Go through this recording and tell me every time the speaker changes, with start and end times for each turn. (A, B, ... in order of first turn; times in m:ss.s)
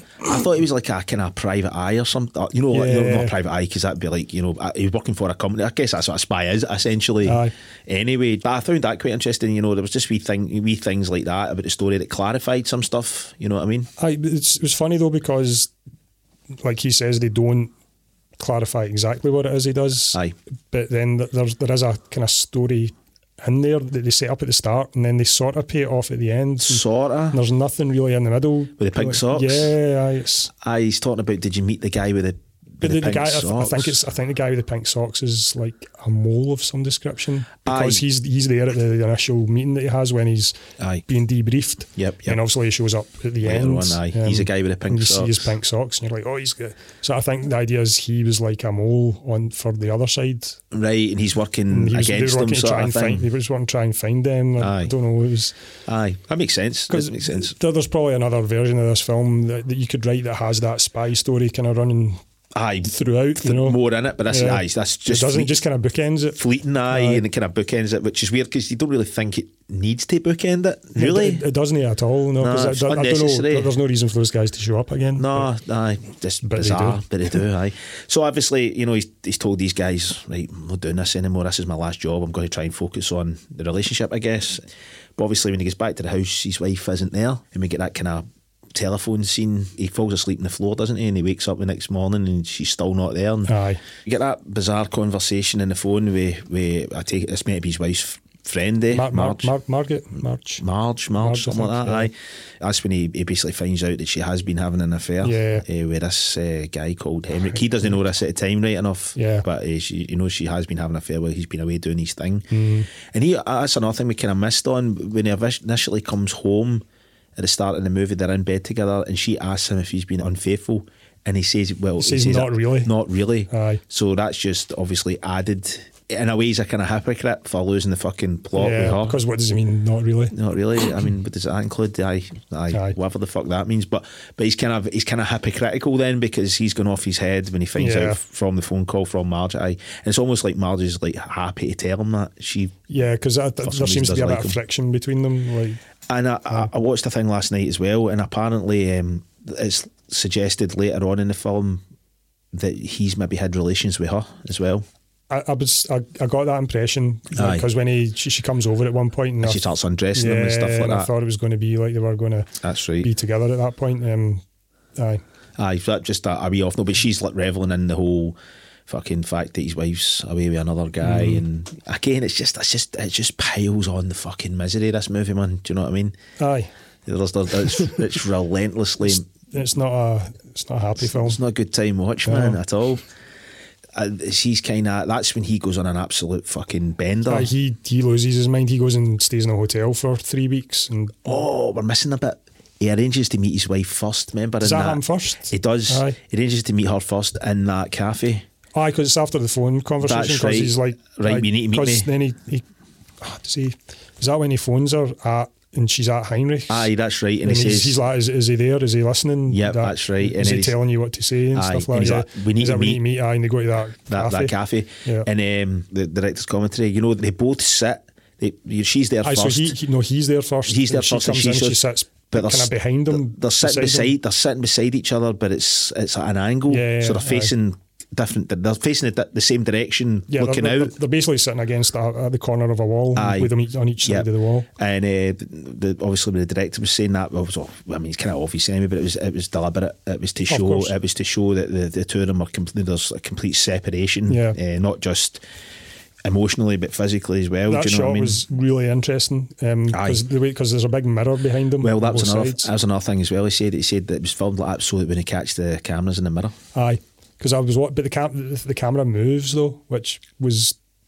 0:00.2-0:13.9 A
0:02.7-0:03.3 B
0:07.2-0:07.5 B
0:14.0-0:15.7 B
0:16.6-0:17.7 B
0:18.4-0:30.5 B
0:26.6-0:27.4 A
0:28.8-0:29.7 A
0:30.5-0:33.9 A
0:32.8-0:50.6 B
0:37.6-0:38.0 A
0:40.8-0:41.0 A
0:42.0-0:42.4 A
0:43.4-0:45.5 A
0:50.7-0:53.3 A
0:51.7-0:55.6 B
0:54.6-0:54.9 A
0:55.8-0:57.5 A
0:56.9-1:02.2 B
1:02.5-1:05.6 A
1:02.8-1:07.2 B
1:06.3-1:11.4 A
1:10.9-1:15.5 B
1:12.4-1:13.7 A
1:15.2-1:24.6 A
1:16.4-1:17.0 B
1:25.2-1:39.5 A
1:33.5-1:33.8 B
1:38.9-1:40.6 B
1:40.6-1:56.8 A
1:41.2-1:42.1 B
1:45.2-1:45.6 B
1:49.2-1:49.4 B
1:52.5-1:52.9 B
1:57.4-2:09.2 A
2:02.0-2:02.9 B
2:03.5-2:03.8 B
2:08.5-2:10.3 B
2:10.3-2:22.9 A
2:17.8-2:18.2 B
2:22.9-2:25.8 B
2:23.6-2:24.6 A
2:26.1-2:31.8 A
2:32.5-2:34.8 A
2:35.3-2:44.4 B
2:37.3-2:37.7 A
2:39.4-2:41.1 A
2:42.6-2:43.1 A
2:45.0-2:45.2 B
2:45.6-2:48.4 A
2:48.9-2:56.2 A
2:51.0-2:51.4 B
2:56.4-2:56.7 B
2:57.0-2:59.2 A
2:59.5-3:01.4 B
3:01.0-3:03.0 A
3:02.2-3:02.6 B
3:03.9-3:07.5 A
3:07.3-3:11.3 B
3:11.2-3:18.4 A
3:14.6-3:16.2 B
3:18.7-3:22.6 B
3:20.0-3:22.0 A
3:23.2-3:26.9 B
3:26.7-3:28.0 A
3:27.4-3:35.3 B
3:29.5-3:30.8 A
3:31.5-3:33.0 A
3:34.1-3:39.7 A
3:39.2-3:44.1 B
3:40.7-3:41.8 A
3:42.3-3:50.9 A
3:46.7-3:47.5 B
3:50.3-3:54.7 B
3:53.2-3:53.5 A
3:54.0-4:05.4 A
4:00.5-4:00.9 B
4:04.3-4:04.6 B
4:06.2-4:08.4 A
4:07.7-4:12.7 B
4:09.9-4:10.2 A
4:11.8-4:16.5 A
4:16.7-4:20.8 B